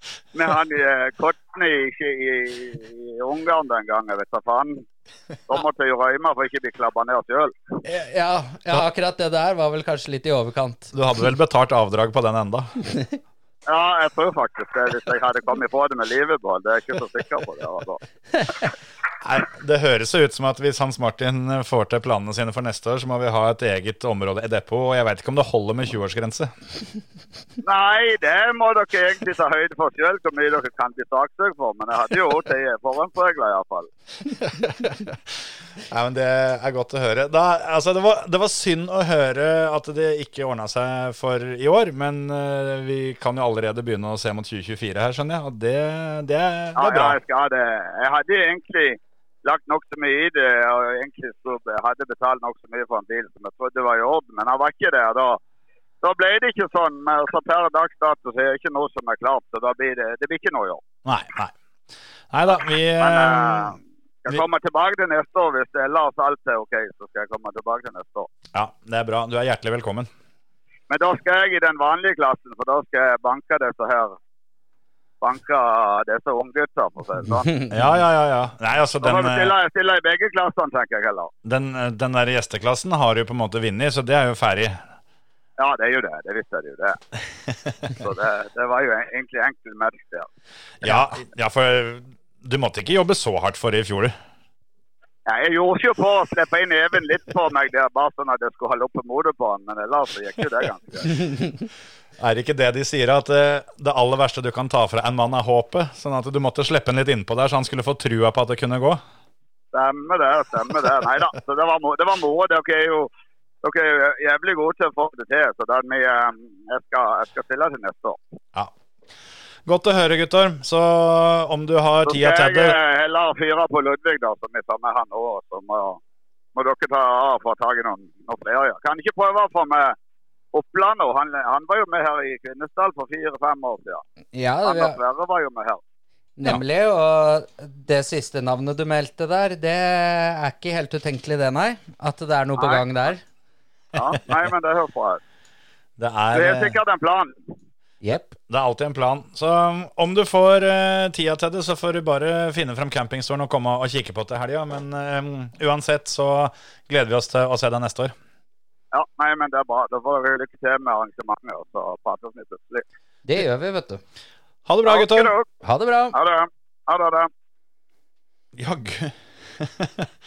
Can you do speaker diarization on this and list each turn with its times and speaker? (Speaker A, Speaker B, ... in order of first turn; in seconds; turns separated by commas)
Speaker A: 0.3-4.8, Speaker A: 5.5-7.5, Speaker B: 7.8-10.9, Speaker C: 10.9-12.7, Speaker A: 13.7-18.0, Speaker C: 19.2-26.5, Speaker A: 27.6-33.9, Speaker C: 34.3-35.2, Speaker C: 35.9-47.2, Speaker A: 46.8-55.4, Speaker A: 56.0-60.8, Speaker C: 61.0-61.5, Speaker C: 62.3-63.8, Speaker A: 63.0-68.3, Speaker C: 68.5-70.1, Speaker A: 70.9-74.2, Speaker A: 75.2-77.7, Speaker C: 77.7-79.5, Speaker A: 79.0-81.3, Speaker C: 81.4-84.8, Speaker A: 85.6-87.0, Speaker A: 87.9-90.3, Speaker C: 90.8-94.1, Speaker A: 95.2-101.3, Speaker C: 102.2-109.0, Speaker A: 109.7-113.1, Speaker A: 113.6-118.2, Speaker C: 119.7-122.8, Speaker A: 122.0-126.0, Speaker A: 126.5-129.9, Speaker A: 130.5-134.0, Speaker B: 134.3-135.0, Speaker A: 134.6-135.8, Speaker B: 136.4-143.2, Speaker A: 142.6-142.8, Speaker A: 143.9-145.2, Speaker C: 146.0-146.8, Speaker A: 146.3-147.3, Speaker B: 148.0-148.3, Speaker C: 148.5-158.1, Speaker A: 158.9-162.8, Speaker B: 163.2-164.0, Speaker C: 164.7-165.3, Speaker A: 164.8-165.4, Speaker B: 165.6-166.2, Speaker A: 166.1-167.3, Speaker C: 168.5-170.1